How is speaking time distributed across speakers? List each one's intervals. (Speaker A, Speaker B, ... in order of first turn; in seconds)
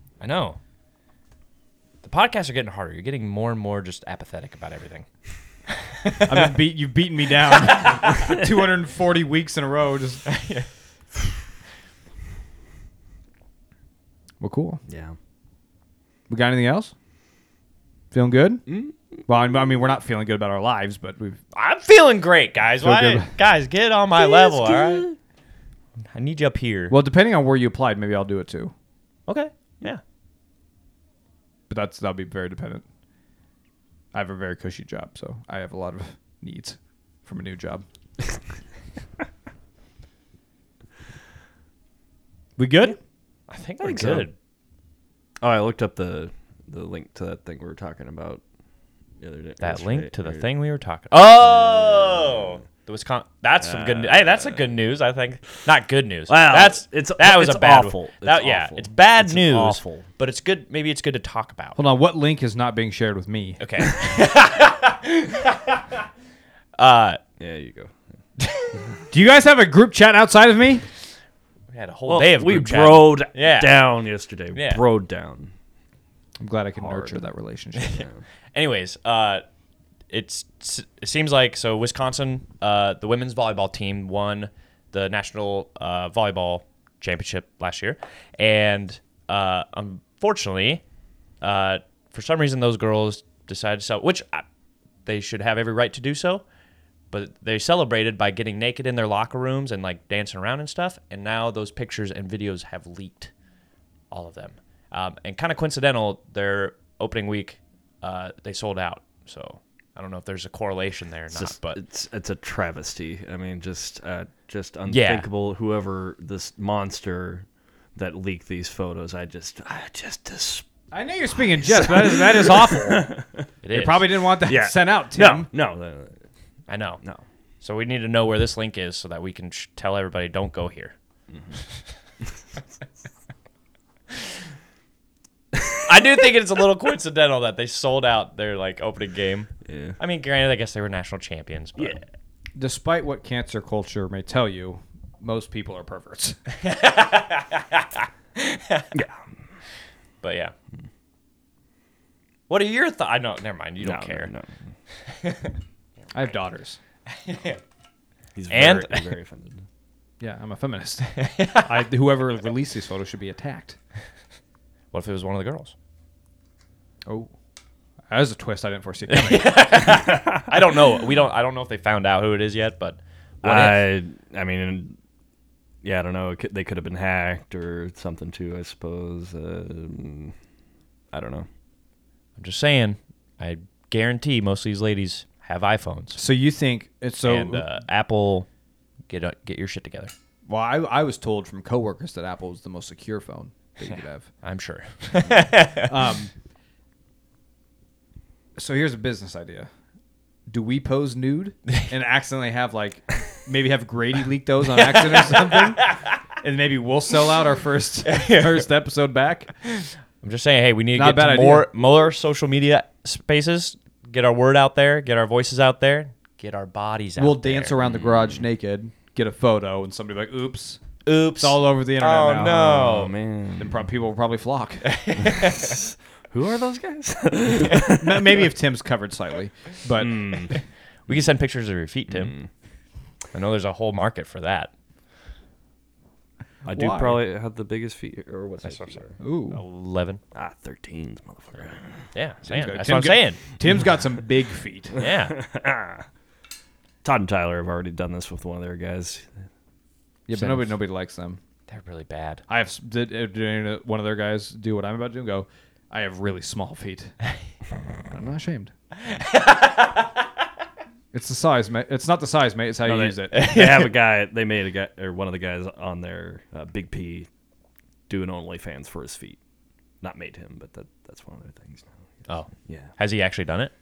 Speaker A: 0.2-0.6, 2.0-5.1, 5.7-6.5, 10.3-10.7, 21.5-25.1, 26.1-26.9, 29.3-30.0, 43.5-44.3, 49.6-61.8, 63.6-65.8, 66.8-67.2, 68.4-68.7, 71.7-73.8, 74.5-74.8, 77.8-79.4, 80.1-90.8, 91.4-94.5, 95.0-96.4, 97.1-103.3, 104.1-111.8, 114.9-115.3, 123.6-124.1, 126.7-127.0, 127.6-130.9, 135.9-142.0, 146.6-148.9, 150.2-150.5, 152.5-154.3, 155.1-155.5, 157.1-157.6, 158.5-159.1, 161.2-161.9, 164.9-165.8, 169.1-173.9, 182.4-186.2, 187.2-188.5, 189.1-190.1, 194.4-195.9, 205.1-206.1, 208.1-208.6, 209.6-217.8, 221.1-223.1, 224.8-225.8, 230.5-232.4, 233.3-234.7, 238.6-240.2, 242.1-243.4, 244.9-245.4, 251.7-252.4, 259.1-260.1, 263.3-263.9, 272.3-273.7
Speaker B: 6.3-10.3, 14.4-14.8, 16.3-16.9, 18.1-18.7, 19.3-21.4, 22.8-23.3, 26.9-28.7, 31.7-32.8, 34.1-37.8, 42.6-43.0, 61.8-63.6, 69.1-70.9, 76.4-78.0, 120.9-123.2, 123.7-125.5, 142.6-146.4, 156.1-156.8, 160.2-163.8, 167.1-167.3, 168.1-169.8, 186.2-187.7, 190.5-194.3, 195.8-196.3, 198.6-199.7, 200.5-209.5, 210.9-211.7, 217.2-220.8, 221.4-223.0, 223.6-224.9, 227.8-230.5, 236.7-237.2, 239.2-239.6, 242.4-245.0, 250.3-251.4, 252.5-257.2, 258.1-258.7, 261.1-263.5
Speaker C: 14.9-15.2, 18.7-19.2, 24.1-25.2, 43.8-44.3, 45.4-48.4, 49.2-50.5, 51.4-52.6, 53.6-54.7, 56.3-60.1, 67.4-68.0, 72.1-75.5, 76.8-77.2, 111.3-120.7, 121.6-123.5, 124.4-126.2, 131.3-131.6, 139.7-140.0, 148.9-149.2, 153.8-154.6, 158.3-159.7, 170.1-170.4, 173.4-175.0, 175.8-180.3, 181.1-181.5, 222.7-223.9, 225.2-228.4, 230.0-230.6, 232.1-232.5, 236.6-239.1, 240.3-242.1, 244.9-246.1, 247.0-249.3, 250.3-250.7, 262.8-267.3, 268.1-269.4, 270.0-272.1, 272.7-272.9